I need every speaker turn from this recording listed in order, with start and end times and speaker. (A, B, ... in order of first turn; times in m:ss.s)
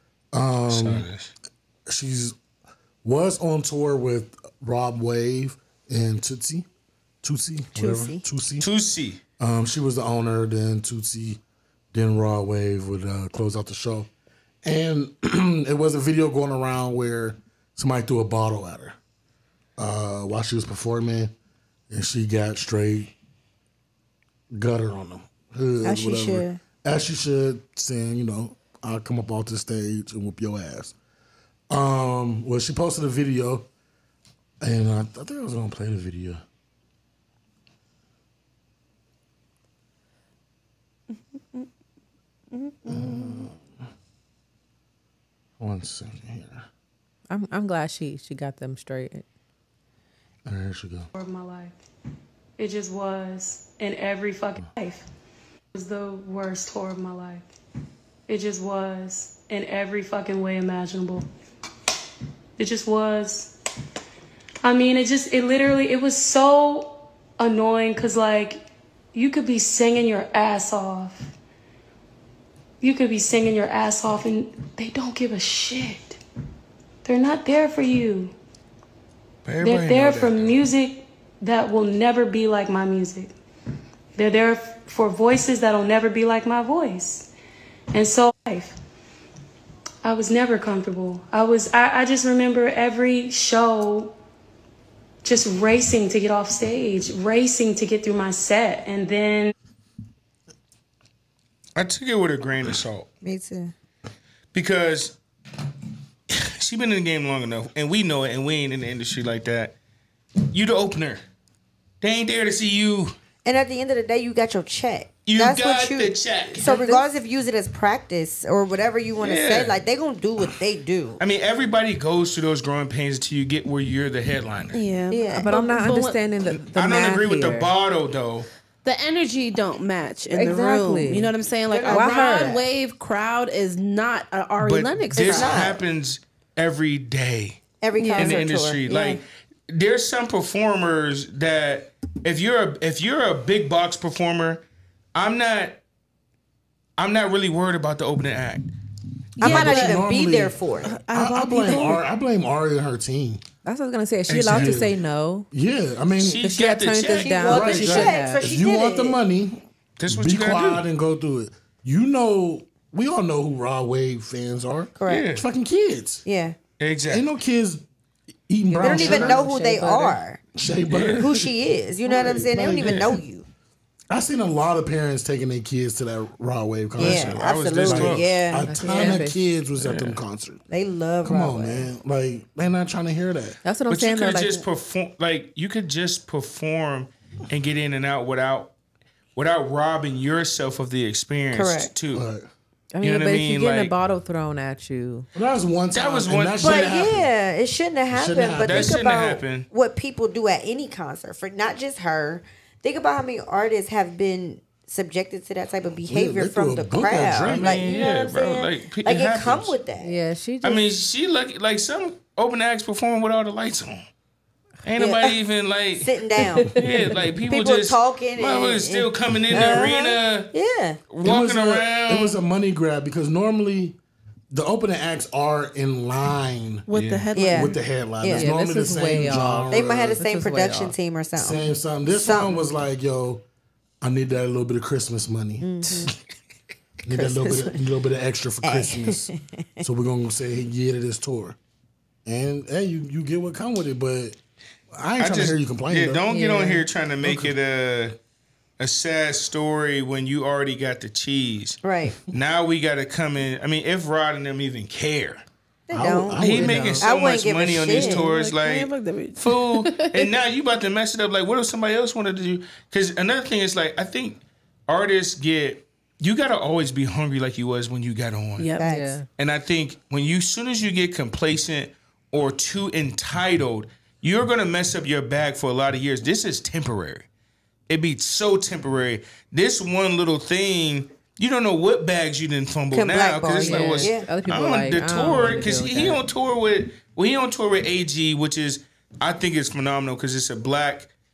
0:00.3-0:01.0 A
0:00.7-0:01.3 B
0:01.9-0:02.4 A
0:03.0-0:06.7 A
0:07.2-0:08.7 A
0:07.8-0:08.2 C
0:08.6-0:09.2 B
0:09.4-0:11.4 A
0:11.9-0:14.1 A
0:14.6-0:19.0 A
0:19.8-0:21.3 A
0:21.9-0:23.1 A
0:24.5-0:31.0 A
0:25.8-0:26.6 C
0:31.7-0:33.7 A
0:34.6-0:36.4 A
0:41.1-0:41.6 D
0:42.5-0:43.4 D
0:42.9-0:43.6 A
0:45.6-0:46.6 A
0:47.3-0:49.2 E
0:50.4-0:51.1 A
0:51.1-0:51.8 F
0:52.6-0:55.1 F
0:55.7-0:57.5 F
0:58.3-1:01.2 F
1:02.6-1:03.5 F
1:04.6-1:08.6 F
1:09.1-1:11.2 F
1:12.8-1:16.2 F
1:17.0-1:18.3 F
1:19.4-1:20.6 B
1:19.6-1:23.3 F
1:24.2-1:27.3 F
1:27.9-1:28.8 F
1:30.0-1:34.1 F
1:35.2-1:39.5 F
1:41.8-1:43.1 B
1:43.2-1:43.7 C
1:44.5-1:45.2 B
1:46.3-1:49.7 B
1:50.5-1:51.2 B
1:52.0-1:53.1 B
1:53.4-2:01.2 C
1:55.2-1:56.7 B
1:59.2-1:59.8 B
2:01.2-2:04.8 B
2:04.7-2:06.2 D
2:05.1-2:05.5 C
2:05.2-2:07.7 E
2:06.4-2:08.5 B
2:08.8-2:15.6 D
2:10.3-2:11.3 E
2:11.7-2:12.6 C
2:11.8-2:12.5 E
2:14.6-2:17.6 B
2:15.1-2:15.8 C
2:17.8-2:19.2 C
2:18.0-2:18.4 D
2:18.2-2:24.6 B
2:25.1-2:25.8 B
2:27.0-2:28.7 B
2:29.4-2:30.9 C
2:29.4-2:33.4 A
2:29.4-2:29.9 D
2:30.8-2:32.0 D
2:33.6-2:35.5 E
2:34.3-2:34.8 B
2:34.5-2:34.9 A
2:35.5-2:36.4 A
2:36.2-2:37.4 B
2:36.4-2:38.4 E
2:37.1-2:39.2 C
2:37.4-2:46.2 A
2:40.0-2:40.8 B
2:45.0-2:45.3 C
2:45.1-2:45.4 B
2:46.2-2:46.6 C
2:46.8-2:47.2 B
2:47.1-2:47.8 A
2:48.5-2:49.4 A
2:48.7-2:50.2 E
2:48.8-2:50.4 C
2:50.6-2:51.5 A
2:50.9-2:51.3 B
2:51.2-2:53.4 C
2:52.0-2:53.1 A
2:52.7-2:53.2 B
2:54.1-3:00.6 A
2:57.0-2:58.3 B
2:57.0-2:58.9 C
2:58.6-2:59.4 E
2:59.8-3:00.2 B
3:00.7-3:01.9 C
3:01.2-3:03.6 A
3:03.6-3:04.7 E
3:03.9-3:08.7 B
3:09.3-3:12.2 B
3:11.5-3:11.9 C
3:12.1-3:12.4 A
3:12.9-3:15.3 E
3:13.0-3:13.9 B
3:15.3-3:17.3 A
3:15.9-3:16.9 B
3:16.6-3:30.1 C
3:18.1-3:19.0 A
3:18.6-3:19.7 B
3:26.1-3:27.8 A
3:27.4-3:29.8 B
3:30.0-3:30.9 E
3:30.6-3:34.0 B
3:34.8-3:36.1 B
3:35.0-3:35.3 C
3:36.0-3:36.8 C
3:36.6-3:36.9 E
3:36.8-3:40.5 B
3:37.5-3:41.0 C
3:41.1-3:42.4 B
3:41.2-3:44.0 A
3:44.5-3:46.8 A
3:46.9-3:47.8 D
3:46.9-3:47.3 B
3:47.3-3:48.5 C
3:47.5-3:50.2 A
3:48.3-3:50.9 E
3:49.7-3:52.5 C
3:51.4-3:53.4 A
3:54.0-3:55.7 A
3:55.6-3:56.1 C
3:57.0-3:59.3 A
3:57.1-3:57.8 C
3:58.6-3:59.8 C
3:59.8-4:01.6 A
4:02.2-4:04.4 A
4:04.9-4:06.3 A
4:05.2-4:08.2 B
4:06.3-4:06.8 E
4:07.2-4:07.5 A
4:08.8-4:11.8 B
4:11.8-4:12.2 C
4:12.3-4:15.4 B
4:15.9-4:16.5 C
4:15.9-4:17.0 A
4:16.4-4:28.8 B
4:16.6-4:17.0 E
4:17.0-4:18.3 C
4:18.1-4:20.2 D
4:28.6-4:28.9 D
4:28.8-4:29.2 C
4:28.8-4:29.2 E
4:29.4-4:37.3 B
4:37.9-4:51.1 B
4:42.9-4:44.3 C
4:43.6-4:46.2 E